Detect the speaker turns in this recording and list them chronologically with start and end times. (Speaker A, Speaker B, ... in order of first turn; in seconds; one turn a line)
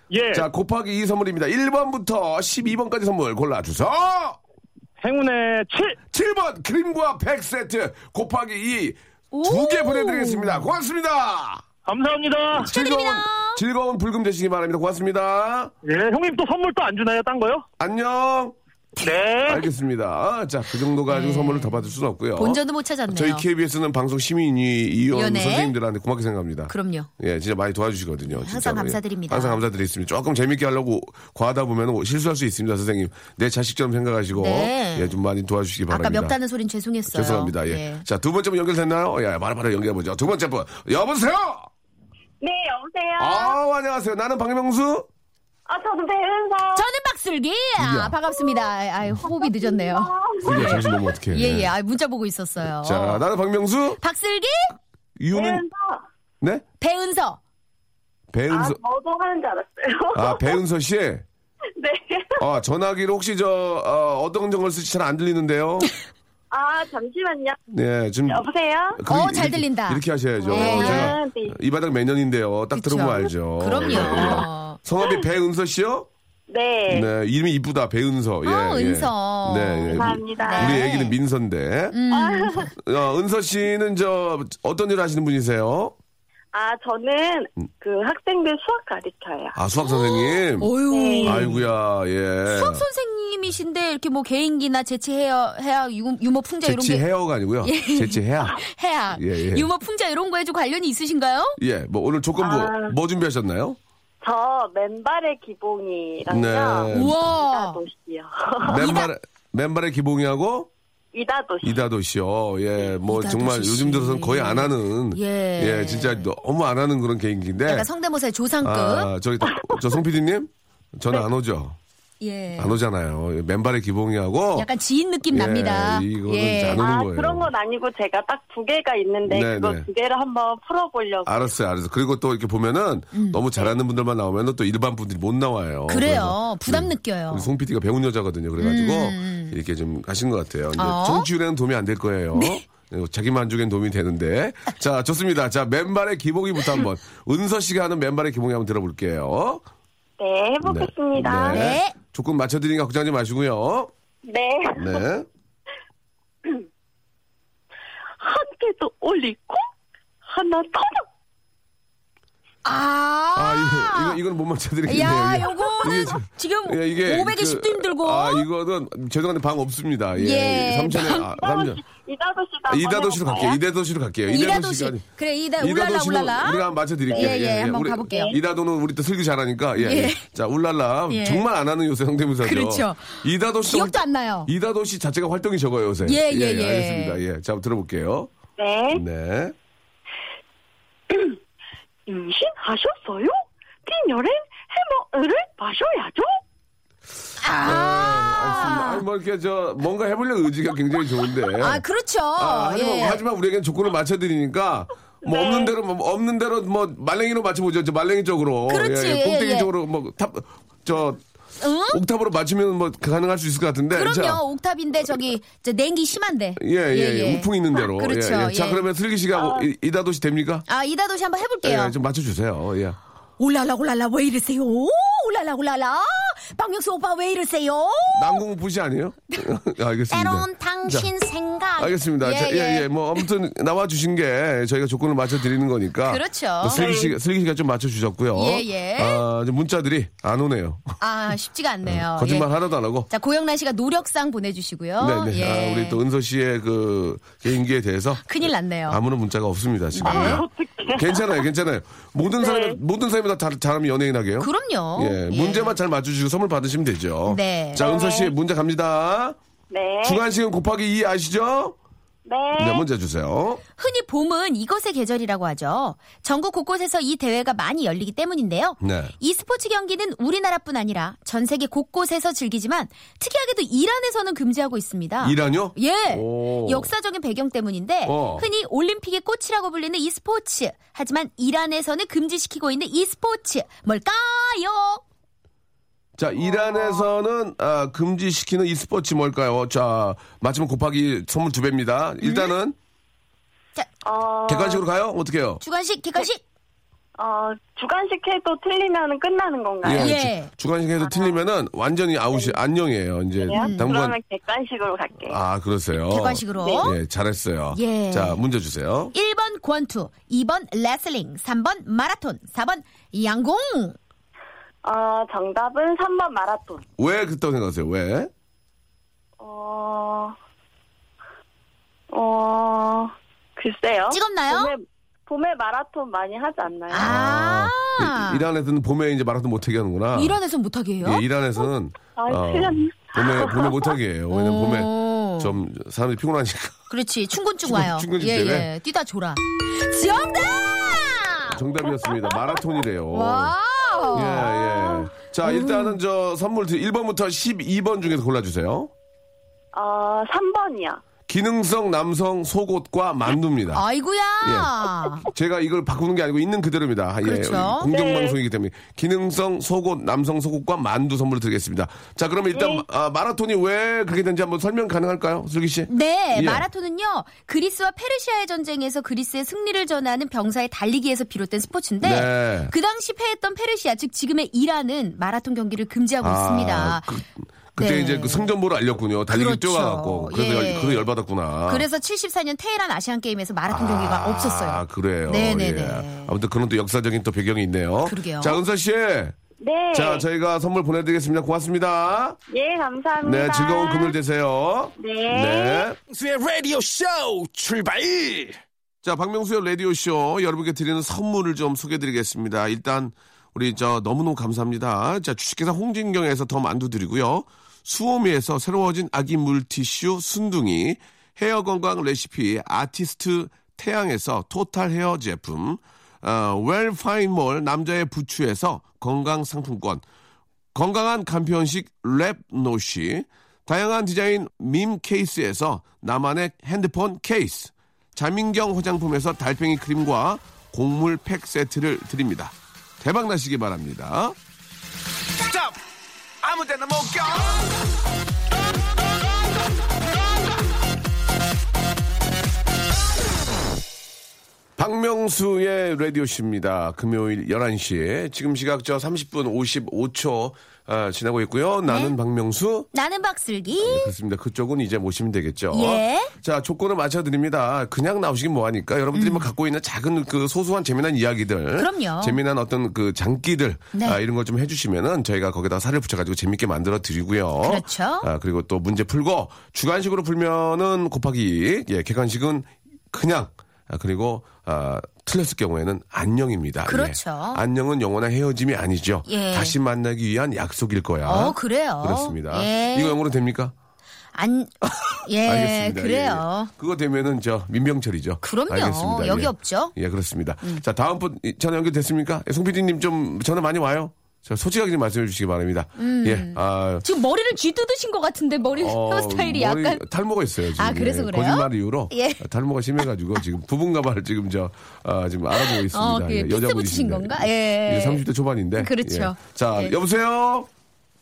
Speaker A: 0.1-0.5
Speaker B: 0.3-4.4
Speaker A: 5.0-6.0
Speaker B: 6.1-11.6
Speaker C: 9.3-10.7
Speaker A: 11.8-12.7
Speaker B: 12.6-15.7
Speaker C: 12.6-13.6
Speaker A: 15.8-17.6
Speaker B: 17.8-18.5
Speaker A: 19.0-19.6
Speaker B: 19.4-36.3
Speaker C: 21.1-23.4
Speaker C: 25.1-25.7
Speaker C: 26.7-27.1
Speaker C: 28.3-29.6
Speaker C: 34.3-35.2
Speaker C: 35.9-38.0
Speaker B: 37.1-41.7
Speaker D: 42.4-43.6
Speaker B: 43.2-45.1
Speaker D: 45.7-46.9
Speaker C: 46.7-53.2
Speaker B: 47.8-48.1
Speaker D: 49.2-50.9
Speaker B: 50.4-51.7
Speaker B: 52.8-54.0
Speaker C: 54.0-54.8
Speaker B: 55.2-55.6
Speaker D: 55.3-56.0
Speaker C: 56.8-57.4
Speaker B: 58.3-58.8
Speaker D: 58.5-60.6
Speaker B: 60.1-61.2
Speaker D: 61.8-62.4
Speaker B: 62.4-65.9
Speaker D: 66.5-67.6
Speaker B: 67.7-76.1
Speaker D: 68.3-69.0
Speaker C: 69.1-71.2
Speaker D: 70.4-71.5
Speaker C: 72.7-74.8
Speaker D: 73.8-74.5
Speaker D: 76.5-77.1
Speaker B: 76.9-82.0
Speaker C: 78.4-81.1
Speaker D: 79.9-80.8
Speaker C: 81.9-82.7
Speaker D: 82.1-82.7
Speaker B: 82.8-85.9
Speaker D: 86.5-89.6
Speaker B: 89.5-90.7
Speaker C: 89.8-91.6
Speaker D: 90.9-91.5
Speaker B: 91.2-92.8
Speaker C: 92.5-97.0
Speaker B: 96.6-99.7
Speaker C: 97.6-101.6
Speaker B: 101.6-103.8
Speaker D: 102.4-102.9
Speaker D: 104.2-109.0
Speaker B: 106.3-107.3
Speaker C: 106.9-107.8
Speaker B: 108.6-110.7
Speaker C: 108.7-109.1
Speaker D: 111.1-111.8
Speaker B: 111.6-117.9
Speaker C: 113.1-116.3
Speaker C: 117.6-119.1
Speaker B: 118.6-121.8
Speaker C: 122.2-122.8
Speaker B: 122.6-124.7
Speaker C: 124.5-126.8
Speaker B: 125.3-127.5
Speaker D: 126.8-131.5
Speaker B: 129.3-129.9
Speaker B: 131.2-149.6
Speaker C: 133.1-133.4
Speaker C: 135.9-137.5
Speaker C: 138.6-139.6
Speaker C: 140.8-141.3
Speaker C: 142.3-142.6
Speaker D: 150.2-151.6
Speaker B: 150.6-153.9
Speaker C: 151.5-151.9
Speaker D: 154.2-155.0
Speaker B: 154.8-155.3
Speaker D: 158.2-159.6
Speaker D: 160.2-161.0
Speaker C: 162.6-164.2
Speaker B: 163.3-171.8
Speaker C: 164.9-168.5
Speaker C: 170.2-171.3
Speaker D: 171.1-173.6
Speaker B: 172.7-175.0
Speaker C: 174.3-178.3
Speaker B: 175.6-188.3
Speaker D: 177.1-177.4
Speaker D: 178.1-178.4
Speaker C: 179.8-180.2
Speaker C: 181.1-181.4
Speaker C: 182.4-184.5
Speaker C: 186.0-187.2
Speaker D: 188.6-189.0
Speaker B: 188.9-189.5
Speaker D: 191.1-191.4
Speaker D: 192.1-196.3
Speaker C: 197.4-199.0
Speaker B: 197.6-201.8
Speaker C: 201.6-203.2
Speaker B: 202.3-211.2
Speaker D: 205.2-205.7
Speaker C: 208.7-209.7
Speaker C: 211.6-212.0
Speaker B: 211.9-214.4
Speaker C: 213.9-218.8
Speaker B: 216.6-220.6
Speaker D: 219.4-219.6
Speaker C: 220.7-221.9
Speaker B: 221.6-223.0
Speaker C: 223.4-228.4
Speaker B: 228.1-231.1
Speaker C: 230.1-233.2
Speaker B: 231.8-240.9
Speaker C: 236.1-236.9
Speaker D: 236.7-237.1
Speaker C: 238.3-239.2
Speaker C: 241.0-242.5
Speaker B: 241.8-243.1
Speaker C: 243.1-246.0
Speaker B: 245.0-259.4
Speaker C: 248.2-249.0
Speaker C: 249.9-250.4
Speaker D: 250.0-251.4
Speaker D: 252.4-252.8
Speaker C: 254.4-255.8
Speaker C: 257.3-257.8
Speaker D: 257.8-258.3
Speaker D: 259.7-260.2
Speaker B: 260.0-261.8
Speaker D: 262.3-262.8
Speaker B: 262.6-263.6
Speaker C: 263.8-285.0
Speaker B: 268.8-269.1
Speaker B: 275.2-276.9
Speaker B: 278.0-278.5
Speaker B: 286.2-292.8
Speaker D: 286.4-287.1
Speaker C: 292.2-292.5
Speaker D: 294.0-294.8
Speaker B: 294.5-295.6
Speaker C: 295.6-296.4
Speaker D: 297.2-300.1
Speaker B: 299.8-304.2
Speaker C: 299.9-300.5
Speaker D: 301.0-301.4
Speaker D: 302.3-302.6
Speaker D: 303.4-305.4
Speaker C: 303.6-303.9
Speaker B: 305.2-309.1
Speaker C: 306.0-307.0
Speaker C: 307.7-308.4
Speaker C: 309.1-313.9
Speaker D: 314.8-316.8
Speaker B: 317.0-318.3
Speaker D: 319.4-320.4
Speaker D: 322.1-327.1
Speaker C: 324.1-324.7
Speaker C: 326.9-328.4
Speaker B: 327.0-330.4
Speaker C: 330.1-331.2
Speaker B: 331.0-336.8
Speaker D: 332.1-333.9
Speaker C: 334.3-335.6
Speaker C: 336.9-341.6
Speaker B: 337.6-338.7
Speaker B: 341.5-343.5
Speaker D: 341.9-342.6
Speaker C: 343.1-344.6
Speaker B: 344.1-348.9
Speaker D: 344.2-345.1
Speaker C: 345.4-346.0
Speaker D: 349.7-351.0
Speaker B: 351.3-353.8
Speaker C: 353.7-355.3
Speaker B: 354.4-366.6
Speaker C: 357.2-357.9
Speaker D: 357.9-358.4
Speaker D: 362.5-362.8
Speaker C: 365.9-377.1
Speaker B: 372.0-372.7
Speaker B: 376.2-381.8
Speaker C: 377.8-378.5
Speaker C: 379.3-381.1
Speaker C: 381.7-386.3
Speaker B: 383.7-389.4
Speaker C: 388.0-388.6
Speaker D: 389.6-390.2
Speaker B: 389.9-392.4
Speaker D: 392.5-394.1
Speaker B: 393.2-396.0
Speaker D: 395.0-395.9
Speaker E: 396.1-398.6
Speaker B: 399.0-420.0
Speaker B: 420.7-434.4
Speaker B: 435.4-435.8
Speaker B: 436.4-437.6
Speaker B: 444.8-452.9
Speaker C: 451.9-452.1
Speaker C: 452.9-454.1
Speaker B: 453.8-483.7
Speaker C: 455.7-456.3
Speaker C: 459.1-459.5
Speaker C: 461.8-462.4
Speaker C: 463.9-464.2
Speaker C: 467.6-468.3
Speaker C: 476.9-477.6
Speaker C: 479.3-479.8
Speaker C: 481.2-483.2
Speaker C: 484.3-484.7
Speaker B: 484.8-497.0
Speaker C: 485.2-486.7
Speaker C: 488.4-489.9
Speaker C: 496.0-500.0
Speaker B: 498.8-510.7
Speaker C: 500.8-502.4
Speaker C: 505.5-508.2
Speaker C: 508.8-509.9